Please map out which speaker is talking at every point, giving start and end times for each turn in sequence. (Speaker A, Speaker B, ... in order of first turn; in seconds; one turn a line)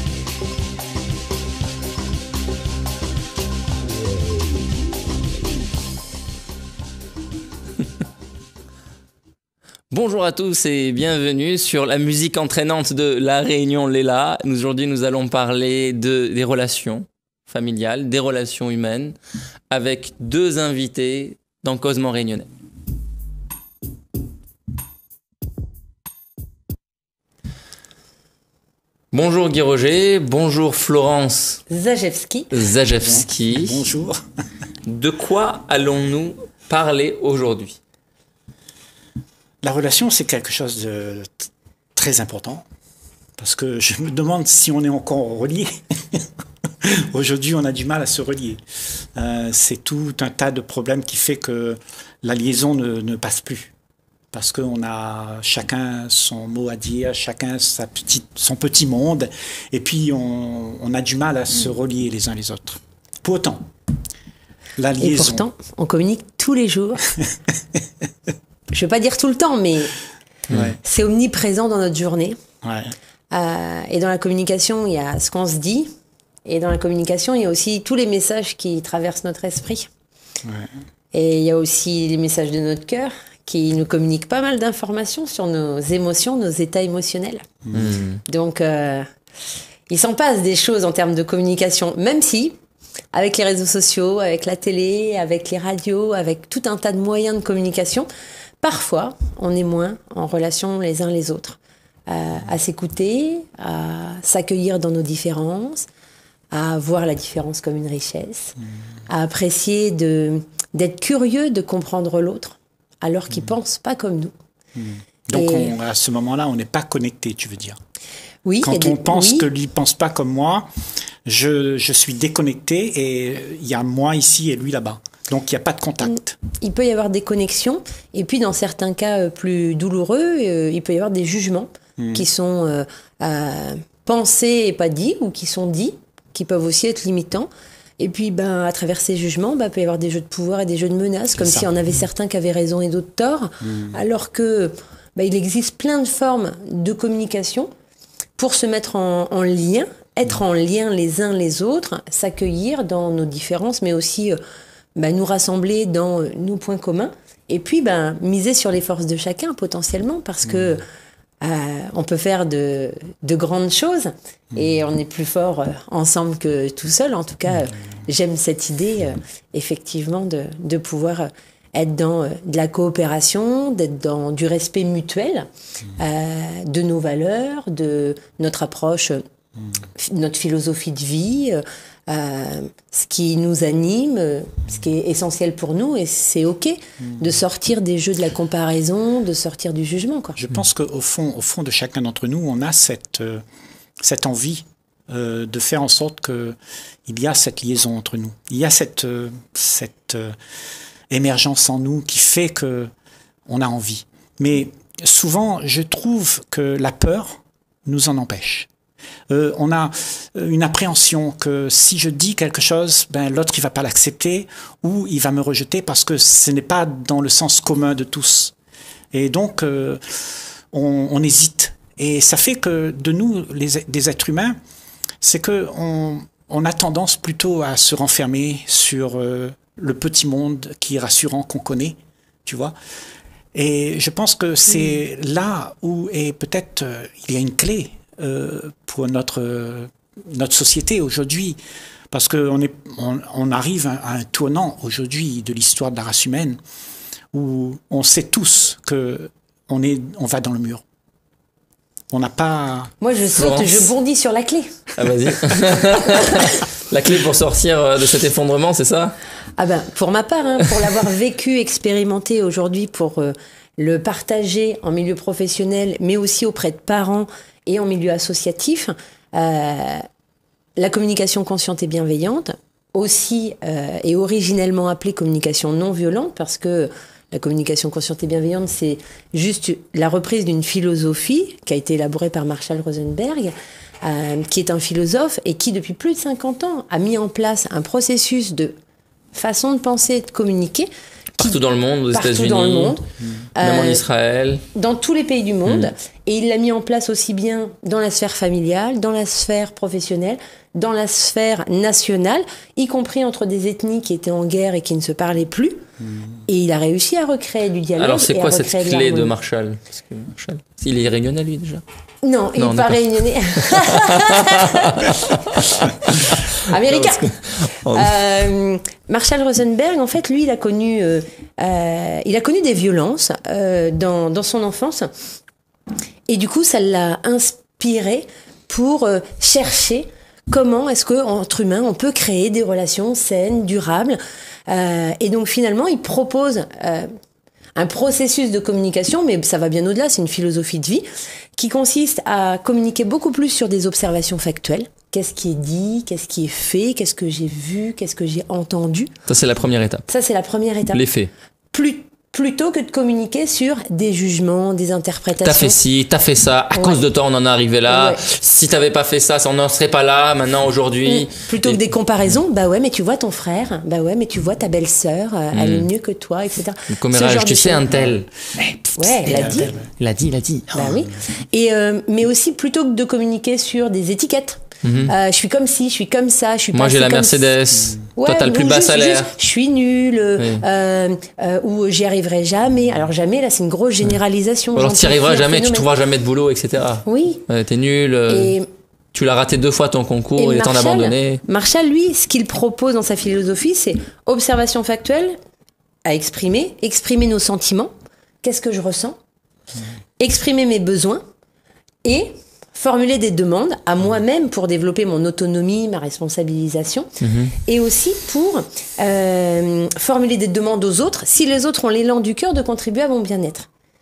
Speaker A: 9.9-19.1
Speaker A: 19.7-22.5
Speaker A: 29.1-31.6
Speaker B: 31.7-32.5
Speaker A: 32.5-33.9
Speaker C: 33.0-34.2
Speaker A: 34.9-37.8
Speaker C: 39.6-42.6
Speaker C: 43.4-46.2
Speaker C: 46.8-48.6
Speaker C: 49.1-53.7
Speaker C: 54.3-63.6
Speaker C: 64.8-65.5
Speaker B: 65.0-67.1
Speaker B: 68.7-69.9
Speaker C: 70.5-70.8
Speaker B: 70.7-72.3
Speaker C: 72.6-72.9
Speaker B: 73.3-75.9
Speaker B: 76.4-79.9
Speaker B: 81.1-87.4
Speaker C: 87.7-87.9
Speaker A: 87.7-88.2
Speaker B: 88.3-89.0
Speaker B: 89.9-92.5
Speaker B: 93.1-98.1
Speaker B: 98.6-105.9
Speaker B: 106.5-108.5
Speaker B: 109.1-114.3
Speaker C: 114.8-117.8
Speaker B: 115.3-115.7
Speaker B: 118.4-119.5
Speaker C: 118.6-120.7
Speaker C: 121.2-126.4
Speaker B: 126.1-147.7
Speaker C: 132.0-132.2
Speaker C: 141.3-141.7
Speaker C: 143.6-144.0
Speaker B: 148.3-154.4
Speaker B: 154.9-160.8
Speaker C: 160.4-160.7
Speaker B: 161.4-179.2
Speaker B: 180.0-190.4
Speaker C: 187.0-187.4
Speaker C: 190.4-193.4
Speaker C: 194.0-200.3
Speaker C: 201.1-202.9
Speaker C: 203.5-208.7
Speaker C: 209.3-218.5
Speaker C: 219.1-224.5
Speaker C: 225.2-232.7
Speaker C: 233.5-241.6
Speaker C: 242.1-246.6
Speaker C: 247.3-250.8
Speaker C: 252.1-252.9
Speaker B: 253.0-254.8
Speaker A: 253.3-253.9
Speaker A: 254.9-259.1
Speaker B: 259.6-270.0
Speaker B: 270.8-288.7
Speaker B: 289.3-291.6
Speaker A: 291.4-292.9
Speaker B: 292.1-293.0
Speaker B: 293.6-294.0
Speaker A: 293.6-294.6
Speaker B: 294.7-305.8
Speaker B: 306.5-309.3
Speaker A: 308.0-311.8
Speaker B: 312.2-315.6
Speaker A: 312.6-318.1
Speaker B: 316.3-325.1
Speaker B: 326.3-337.1
Speaker B: 337.8-349.1
Speaker A: 349.3-350.1
Speaker B: 350.1-351.0
Speaker A: 350.9-351.3
Speaker B: 351.7-355.8
Speaker A: 355.4-361.8
Speaker B: 356.7-357.0
Speaker B: 357.9-358.2
Speaker B: 361.0-367.9
Speaker A: 365.5-365.9
Speaker A: 366.9-370.9
Speaker B: 369.0-369.8
Speaker C: 369.2-369.9
Speaker B: 370.7-377.4
Speaker A: 374.8-375.1
Speaker A: 376.7-379.3
Speaker B: 378.2-385.9
Speaker A: 380.4-380.6
Speaker A: 384.8-388.6
Speaker B: 387.1-387.4
Speaker B: 388.3-388.6
Speaker A: 389.1-391.4
Speaker B: 390.4-395.3
Speaker B: 396.1-397.9
Speaker B: 398.4-399.2
Speaker B: 400.2-401.2
Speaker B: 402.0-413.7
Speaker A: 407.2-407.5